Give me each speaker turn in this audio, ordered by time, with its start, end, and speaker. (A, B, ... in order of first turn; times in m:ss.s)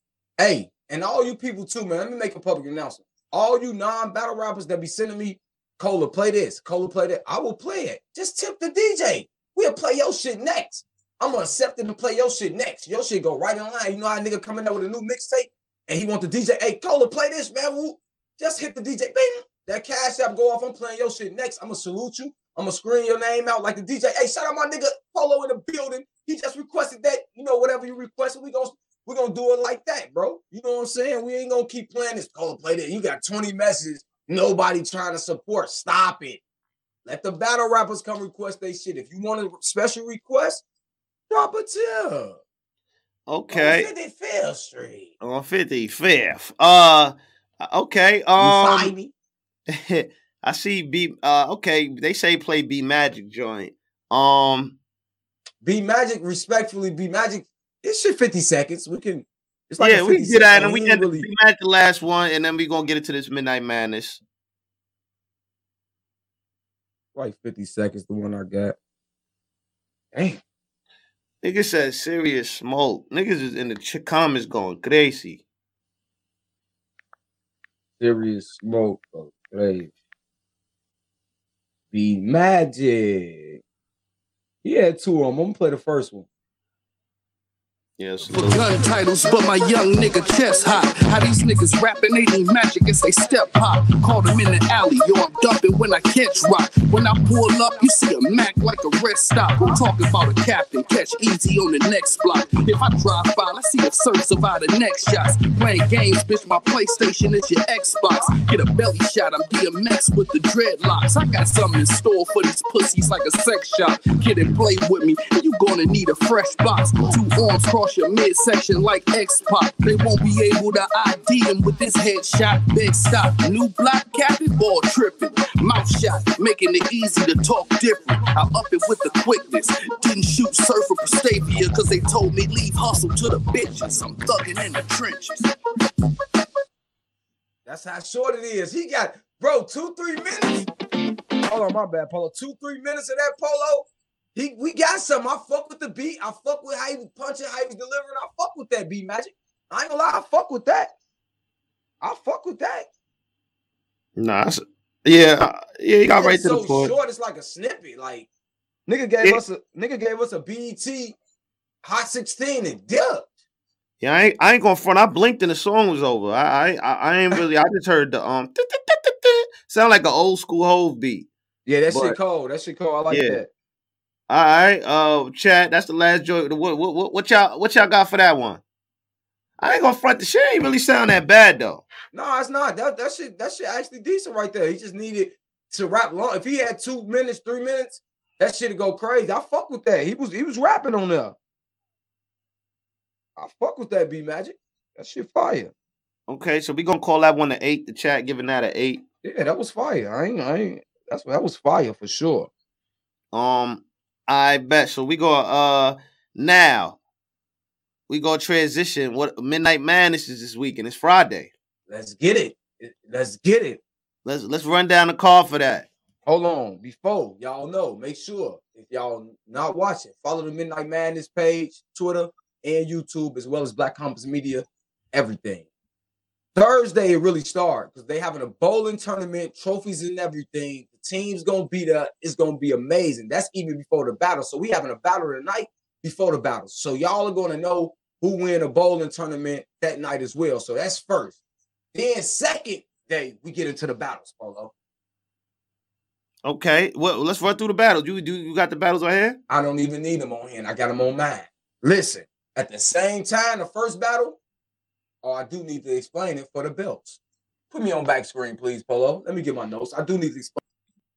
0:00.4-0:36.4 A
0:37.0-0:40.6 A
0:41.3-0:42.4 A
0:43.3-0:43.9 B
0:43.5-0:45.1 A
0:45.2-0:48.9 B
0:48.4-0:49.1 A
0:49.7-0:54.8 B
0:55.6-1:01.3 A
0:59.8-1:04.2 B
1:07.1-1:08.8 A
1:10.1-1:10.4 A
1:11.4-1:15.4 B
1:18.0-1:19.9 A
1:21.9-1:23.6 A
1:24.6-1:26.2 A
1:28.0-1:28.7 B
1:28.3-2:15.4 C
2:17.6-2:20.7 A
2:21.4-2:30.9 A
2:32.0-2:32.9 A
2:34.2-2:36.9 B
2:36.1-2:38.3 A
2:38.9-2:41.2 A
2:41.8-2:43.3 A
2:44.0-2:51.3 B
2:51.6-2:53.5 A
2:51.9-2:52.2 B
2:53.1-2:53.4 B
2:54.3-2:58.6 B
2:59.6-3:01.8 B
3:02.1-3:11.4 A
3:13.4-3:15.7 A
3:16.3-3:19.0 B
3:19.2-3:22.5 A
3:23.3-3:27.0 B
3:28.1-3:31.5 B
3:31.9-3:33.8 A
3:34.2-3:35.9 B
3:36.2-3:45.6 A
3:46.5-4:01.4 A
4:01.9-4:04.7 A
4:06.4-4:09.4 B
4:09.5-4:14.4 A
4:15.2-4:17.2 A
4:17.7-4:20.6 A